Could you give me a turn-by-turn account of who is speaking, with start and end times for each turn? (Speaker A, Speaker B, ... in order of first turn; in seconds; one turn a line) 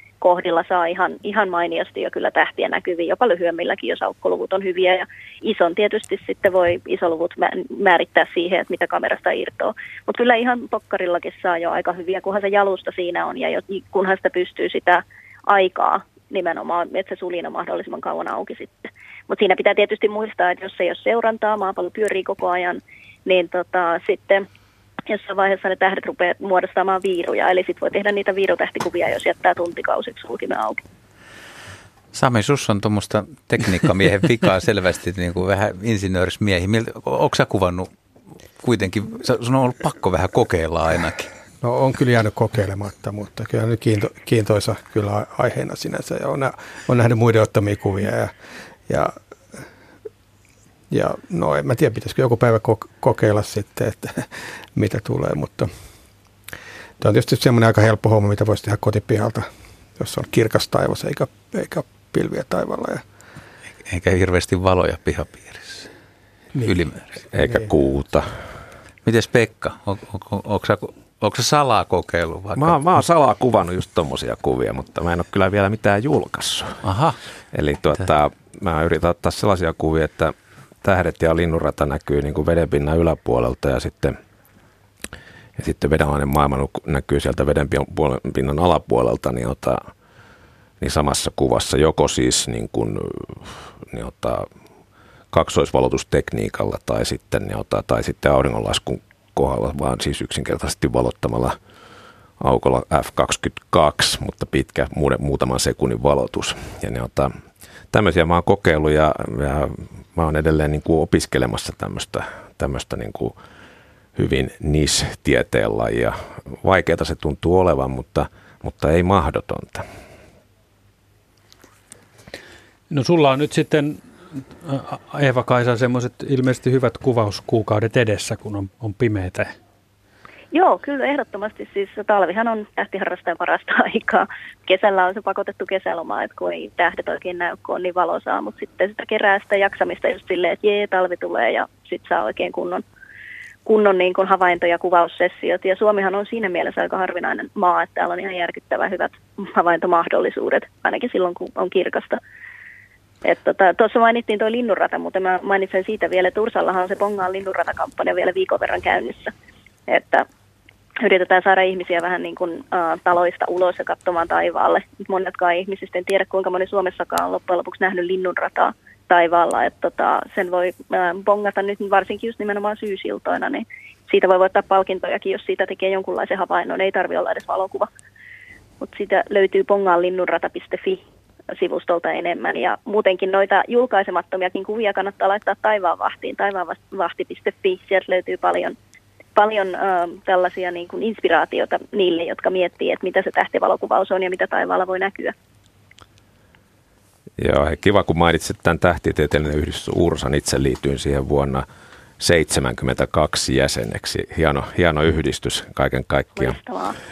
Speaker A: 0.2-24.5
Speaker A: 25.1-30.8
Speaker B: 32.1-37.9
Speaker B: 38.6-41.3
Speaker C: 41.6-48.3
Speaker C: 48.9-49.1
Speaker C: 50.9-55.7
Speaker C: 57.0-63.0
Speaker B: 63.8-65.9
Speaker C: 66.5-67.7
Speaker B: 66.7-67.1
Speaker D: 67.3-68.3
Speaker B: 69.0-72.8
Speaker D: 72.5-76.8
Speaker B: 76.8-77.2
Speaker D: 77.5-84.2
Speaker D: 85.6-89.8
Speaker D: 90.8-94.5
Speaker D: 95.3-101.6
Speaker D: 102.4-107.3
Speaker D: 107.9-113.3
Speaker D: 114.2-119.8
Speaker E: 122.9-124.0
Speaker E: 124.6-129.5
Speaker A: 130.5-142.8
Speaker A: 143.7-152.2
Speaker A: 153.2-159.3
Speaker A: 159.9-160.3
Speaker A: 161.0-177.9
Speaker A: 178.8-181.0
Speaker A: 181.5-188.8
Speaker A: 189.3-195.3
Speaker D: 197.4-201.6
Speaker D: 202.2-206.6
Speaker A: 206.4-207.0